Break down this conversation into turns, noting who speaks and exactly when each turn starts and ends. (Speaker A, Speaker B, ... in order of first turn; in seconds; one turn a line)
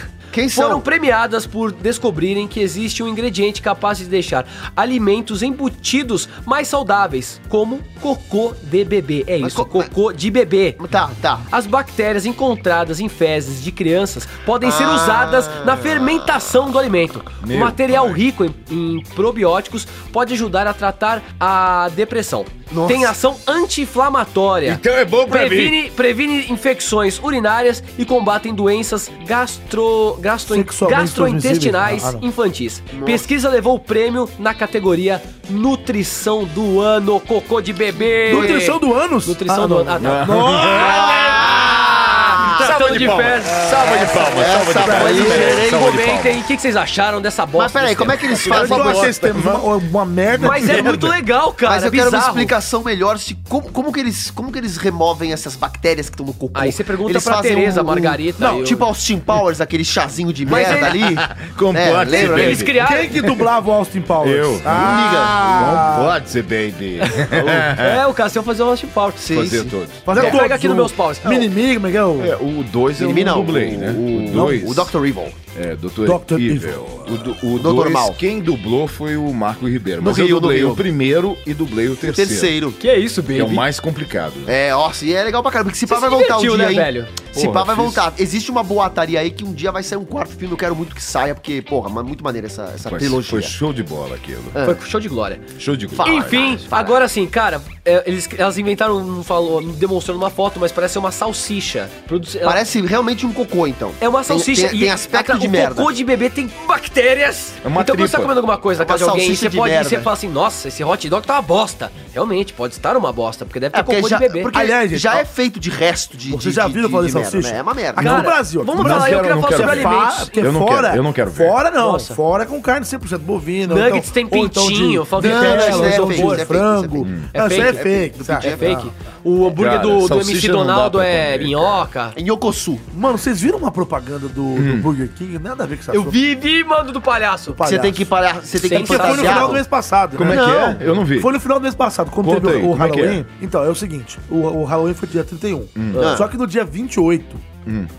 Speaker A: 0.3-0.9
Speaker B: 0.5-10.8
Speaker A: 9.4-9.9
Speaker A: 10.8-11.5
Speaker B: 11.5-48.5
Speaker A: 14.6-16.5
Speaker C: 17.4-18.2
Speaker A: 22.7-23.1
Speaker C: 24.6-25.8
Speaker D: 30.5-32.2
Speaker A: 32.9-33.3
Speaker D: 38.3-41.2
Speaker A: 38.3-38.5
Speaker C: 40.0-46.5
Speaker A: 40.8-42.7
Speaker A: 43.7-45.9
Speaker D: 44.8-45.4
Speaker A: 47.6-49.1
Speaker C: 48.4-49.7
Speaker D: 48.5-51.2
Speaker C: 50.3-50.9
Speaker B: 50.4-52.5
Speaker A: 51.6-62.7
Speaker B: 56.5-58.9
Speaker D: 58.4-58.7
Speaker B: 60.5-61.0
Speaker C: 60.5-62.7
Speaker B: 62.1-63.2
Speaker D: 62.8-66.2
Speaker C: 64.2-68.0
Speaker A: 64.7-65.7
Speaker B: 67.0-69.5
Speaker A: 69.2-70.2
Speaker C: 69.3-70.4
Speaker D: 70.0-72.3
Speaker B: 70.1-71.5
Speaker C: 72.2-74.9
Speaker A: 73.0-75.4
Speaker D: 74.3-74.6
Speaker C: 75.5-82.5
Speaker D: 76.0-77.1
Speaker A: 77.6-78.2
Speaker A: 80.0-80.8
Speaker A: 82.0-82.8
Speaker B: 82.8-83.7
Speaker C: 83.3-84.5
Speaker A: 84.5-93.5
Speaker B: 85.9-87.2
Speaker C: 87.3-88.0
Speaker C: 92.8-94.6
Speaker B: 94.6-95.4
Speaker C: 95.6-96.6
Speaker A: 95.9-97.0
Speaker B: 96.0-102.6
Speaker A: 102.4-105.9
Speaker B: 104.0-114.5
Speaker C: 107.6-108.3
Speaker A: 108.8-110.1
Speaker A: 113.7-118.2
Speaker D: 114.5-115.3
Speaker D: 116.3-128.9
Speaker B: 118.0-120.4
Speaker C: 118.8-121.6
Speaker B: 121.8-122.2
Speaker B: 123.7-126.5
Speaker A: 125.2-128.9
Speaker C: 127.0-127.3
Speaker B: 127.3-127.8
Speaker B: 128.4-132.2
Speaker C: 129.4-131.9
Speaker A: 132.2-132.9
Speaker D: 132.9-136.2
Speaker C: 134.6-134.9
Speaker B: 135.9-137.6
Speaker D: 137.5-138.1
Speaker A: 137.6-139.6
Speaker B: 138.6-139.6
Speaker D: 138.7-147.4
Speaker C: 140.2-141.3
Speaker A: 140.2-140.8
Speaker C: 142.2-143.2
Speaker C: 145.8-146.1
Speaker A: 145.9-146.3